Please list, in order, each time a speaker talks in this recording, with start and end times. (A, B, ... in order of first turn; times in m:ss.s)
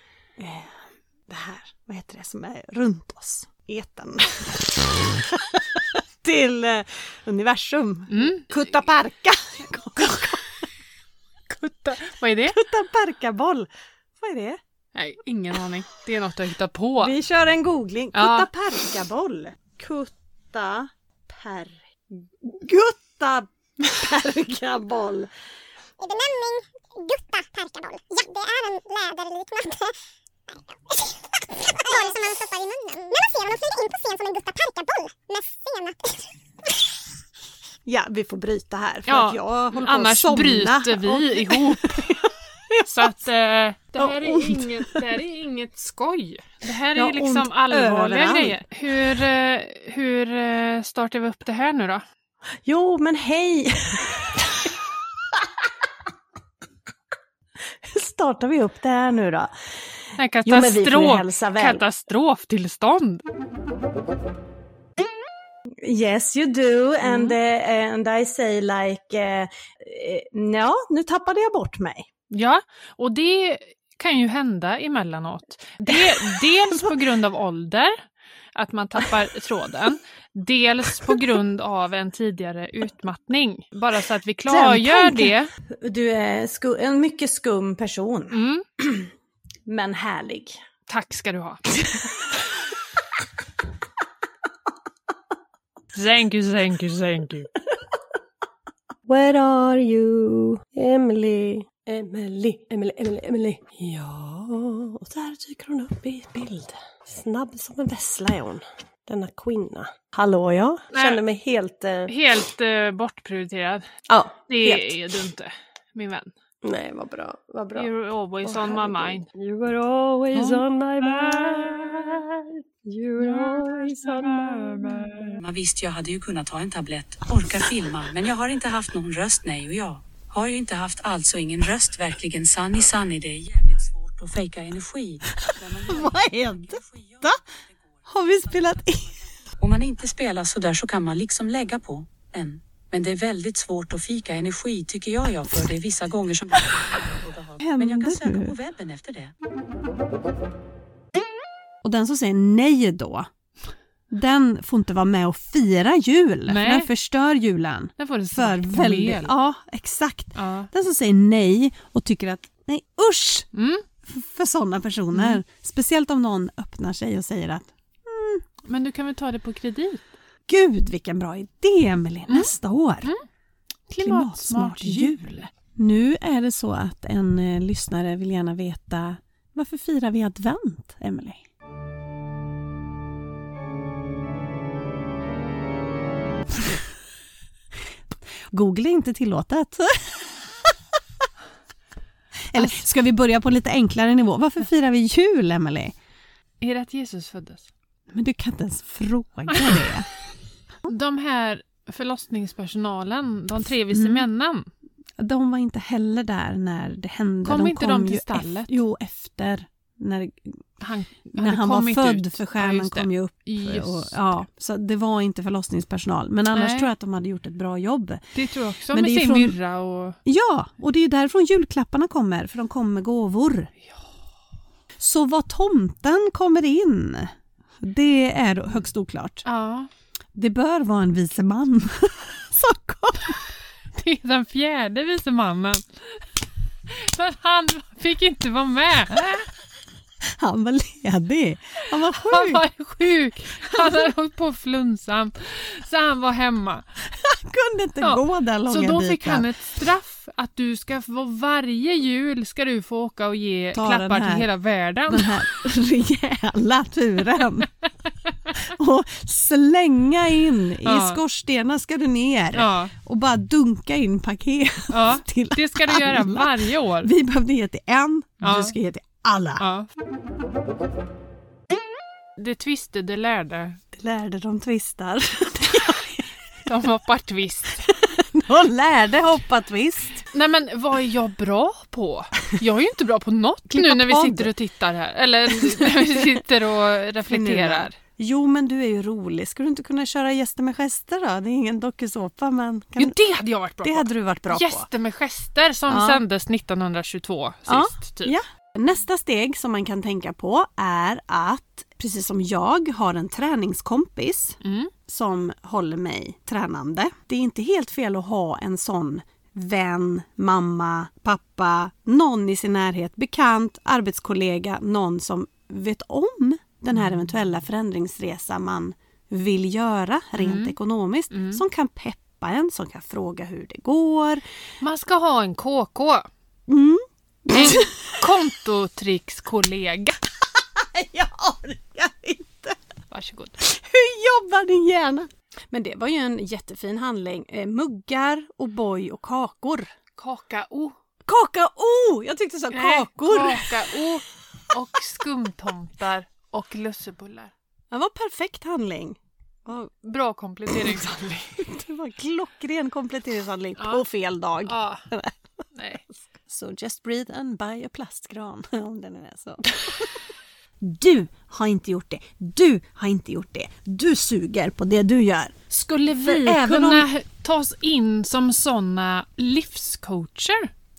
0:00.4-0:10.6 A
0:08.1-0:08.5 B
0:11.5-0:12.6 B
0:12.5-0:14.6 A
0:15.0-0:17.2 B
0:17.0-0:25.3 A
0:18.1-0:18.5 B
0:26.0-0:30.0 C
0:31.5-0:36.3 C
0:37.9-0:43.1 A
0:39.1-0:42.1 B
0:42.9-0:52.0 B
0:44.0-0:45.0 A
0:46.9-0:48.6 A
0:52.6-0:54.8 A
0:57.8-0:59.5 A
1:00.2-1:03.2 B
1:00.4-1:01.8 A
1:05.8-1:12.1 A
1:07.0-1:07.4 B
1:12.3-1:25.5 B
1:15.9-1:16.8 A
1:24.5-1:29.1 A
1:28.3-1:28.6 B
1:29.7-1:30.6 A
1:30.9-1:31.6 B
1:35.9-1:37.5 B
1:39.1-1:52.1 D
1:50.9-1:51.2 B
1:52.1-1:53.9 B
1:54.1-1:55.0 D
1:54.5-1:56.3 B
1:56.6-1:57.9 D
1:57.8-1:59.3 B
1:58.4-2:05.4 D
2:00.4-2:00.6 B
2:03.2-2:05.3 B
2:05.4-2:17.1 E
2:15.5-2:17.4 A
2:18.1-2:19.2 A
2:19.6-2:29.3 E
2:27.6-2:28.6 A
2:31.8-2:33.3 A
2:34.1-2:43.5 A
2:36.5-2:36.9 B
2:38.0-2:39.3 B
2:40.4-2:40.7 B
2:43.5-2:43.8 B
2:44.0-2:48.4 A
2:45.1-2:45.4 B
2:48.6-2:50.0 B
2:50.5-2:53.1 A
2:52.3-2:52.5 B
2:53.9-2:55.5 B
2:54.0-3:01.4 A
3:08.5-3:10.4 A
3:12.5-3:16.0 A
3:12.6-3:12.8 B
3:16.6-3:17.7 B
3:18.1-3:20.1 A
3:20.9-3:24.7 B
3:23.9-3:24.2 A
3:25.2-3:30.6 A
3:27.4-3:28.8 B
3:30.8-3:34.2 B
3:31.3-3:38.2 A
3:36.5-3:36.9 B
3:38.4-3:40.2 B
3:38.9-3:39.6 A
3:40.3-3:43.7 A
3:45.0-3:49.4 A
3:49.4-3:49.9 B
3:50.4-3:53.4 A
3:54.0-3:55.8 B
3:56.9-3:59.5 B
4:00.2-4:02.7 A
4:02.1-4:06.9 B
4:03.6-4:04.0 A
4:07.1-4:09.5 A
4:08.0-4:15.5 B
4:13.8-4:14.5 A
4:15.1-4:17.7 A
4:18.6-4:29.7 A
4:20.8-4:21.2 B
4:22.5-4:22.9 B
4:24.9-4:27.1 B
4:28.4-4:28.8 B
4:29.6-4:29.9 B
4:32.4-4:33.8 B
4:33.9-4:36.3 A
4:36.7-4:37.9 B
4:38.0-4:40.2 A
4:40.3-4:48.0 B
4:43.7-4:44.5 A
4:45.5-4:46.4 A
4:47.3-4:53.2 A
4:53.0-4:58.4 B
4:53.8-4:54.9 A
4:55.9-4:56.2 A
4:57.7-5:24.4 A
5:04.6-5:04.9 B
5:20.4-5:20.8 B
5:21.3-5:21.6 B
5:24.8-5:26.3 B
5:26.7-5:28.2 A
5:27.5-5:30.2 B
5:30.6-5:32.8 A
5:33.1-5:33.6 B
5:33.6-5:39.9 A
5:40.2-5:41.0 B
5:41.3-5:43.7 A
5:42.7-5:47.5 B
5:47.9-5:49.9 A
5:50.0-5:51.6 B
5:50.7-5:51.0 A
5:51.6-5:55.4 A
5:53.8-5:54.0 B
5:54.6-5:55.1 B
5:55.7-5:56.0 B
5:56.3-6:00.1 A
6:00.8-6:05.6 A
6:05.7-6:10.7 B
6:06.1-6:07.1 A